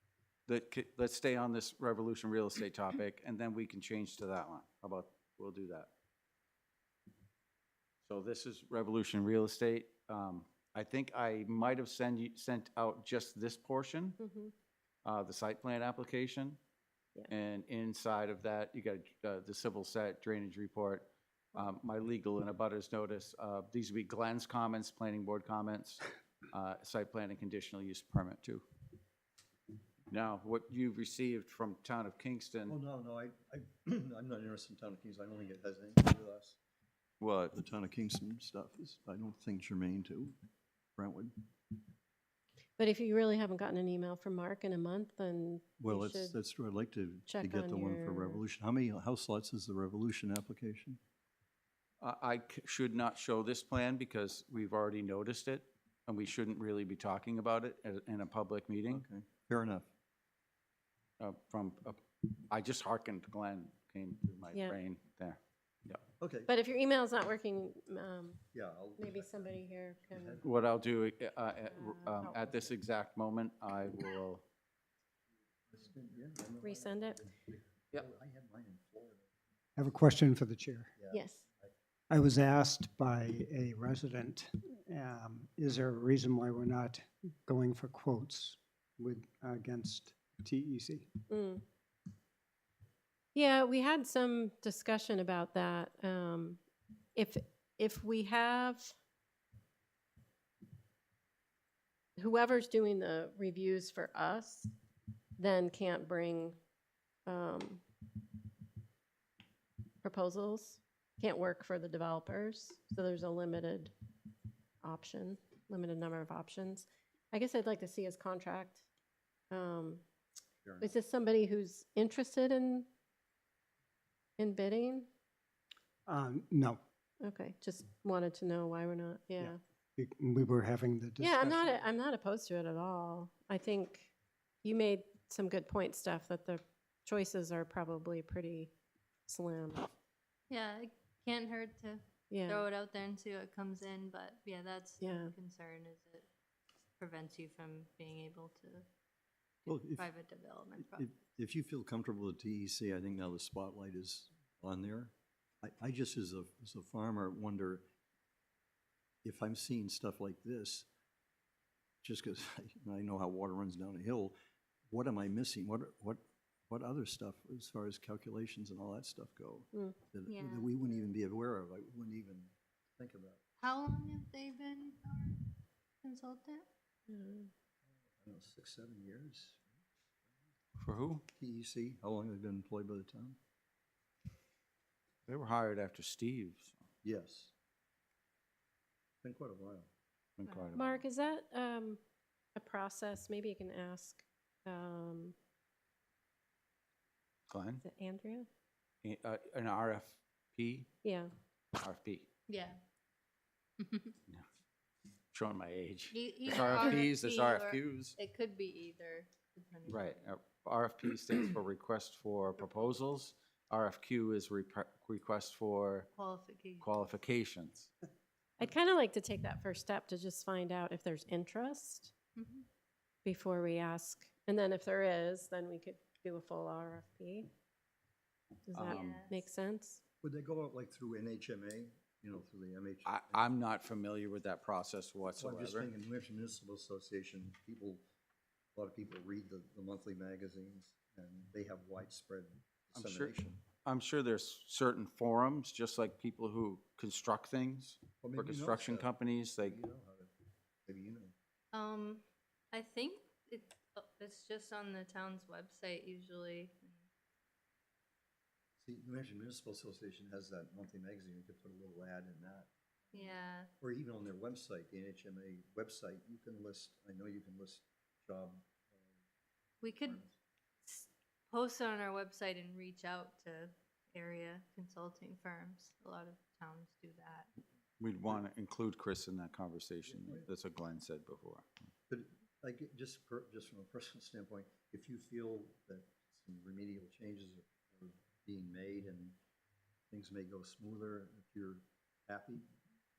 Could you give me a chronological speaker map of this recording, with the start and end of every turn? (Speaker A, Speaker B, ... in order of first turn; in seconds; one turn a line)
Speaker A: 0.5-5.9
Speaker A: 8.0-14.2
Speaker B: 14.2-14.5
Speaker A: 15.0-16.6
Speaker A: 17.3-28.6
Speaker A: 30.1-32.7
Speaker C: 32.7-36.6
Speaker C: 37.2-40.4
Speaker C: 41.0-41.3
Speaker B: 42.8-46.3
Speaker C: 45.8-51.0
Speaker B: 47.3-48.4
Speaker A: 52.0-59.0
Speaker C: 58.9-59.9
Speaker A: 61.2-66.0
Speaker B: 64.5-64.8
Speaker C: 66.2-66.5
Speaker B: 66.5-68.4
Speaker C: 68.5-69.5
Speaker B: 69.0-70.4
Speaker C: 70.1-70.5
Speaker A: 70.4-74.4
Speaker B: 71.7-72.6
Speaker C: 75.7-79.3
Speaker B: 76.6-77.2
Speaker D: 79.8-80.9
Speaker C: 81.0-81.7
Speaker B: 81.1-81.4
Speaker D: 82.1-91.2
Speaker B: 91.3-91.6
Speaker B: 93.3-96.6
Speaker B: 97.2-98.9
Speaker B: 102.2-104.7
Speaker B: 105.4-106.6
Speaker B: 107.3-107.8
Speaker B: 110.0-113.9
Speaker B: 114.8-118.8
Speaker B: 119.5-120.0
Speaker C: 120.6-120.9
Speaker B: 120.8-122.8
Speaker B: 124.4-125.1
Speaker D: 126.1-126.8
Speaker B: 127.2-129.6
Speaker D: 129.4-131.8
Speaker B: 131.2-134.1
Speaker B: 134.6-138.7
Speaker B: 139.3-139.9
Speaker E: 140.5-146.3
Speaker B: 142.3-142.6
Speaker B: 145.0-145.3
Speaker E: 147.0-148.8
Speaker E: 149.6-151.2
Speaker C: 149.7-150.1
Speaker C: 150.8-157.8
Speaker C: 159.2-160.9
Speaker C: 162.0-164.3
Speaker C: 164.9-173.4
Speaker E: 170.3-170.8
Speaker E: 173.6-175.5
Speaker E: 176.0-176.6
Speaker B: 177.1-177.5
Speaker C: 178.2-179.7
Speaker A: 180.8-181.2
Speaker C: 181.3-183.4
Speaker A: 185.3-186.8
Speaker C: 187.0-187.5
Speaker C: 189.2-189.9
Speaker A: 190.4-191.0
Speaker B: 190.8-192.0
Speaker B: 192.6-195.3
Speaker A: 197.5-197.8
Speaker B: 197.8-198.5
Speaker A: 199.0-200.9
Speaker B: 201.0-201.3
Speaker A: 201.8-202.3
Speaker E: 202.5-202.8
Speaker E: 203.8-204.1
Speaker A: 205.3-208.2
Speaker E: 206.1-210.2
Speaker A: 209.9-216.1
Speaker E: 216.1-217.0
Speaker A: 216.8-217.9
Speaker B: 218.6-222.1
Speaker E: 222.3-222.7
Speaker B: 223.2-227.5
Speaker B: 228.7-230.0
Speaker A: 228.7-229.0
Speaker E: 228.9-229.3
Speaker C: 230.2-233.5
Speaker A: 233.1-235.9
Speaker C: 235.4-238.0
Speaker C: 238.7-243.6
Speaker A: 242.9-249.8
Speaker C: 248.2-250.3
Speaker C: 250.8-251.3
Speaker E: 251.7-257.0
Speaker C: 258.8-269.1
Speaker E: 263.1-263.7
Speaker E: 269.8-270.2
Speaker C: 269.9-270.3
Speaker E: 270.8-277.5
Speaker A: 278.0-281.7
Speaker C: 280.1-280.5
Speaker C: 282.1-289.4
Speaker C: 290.1-292.7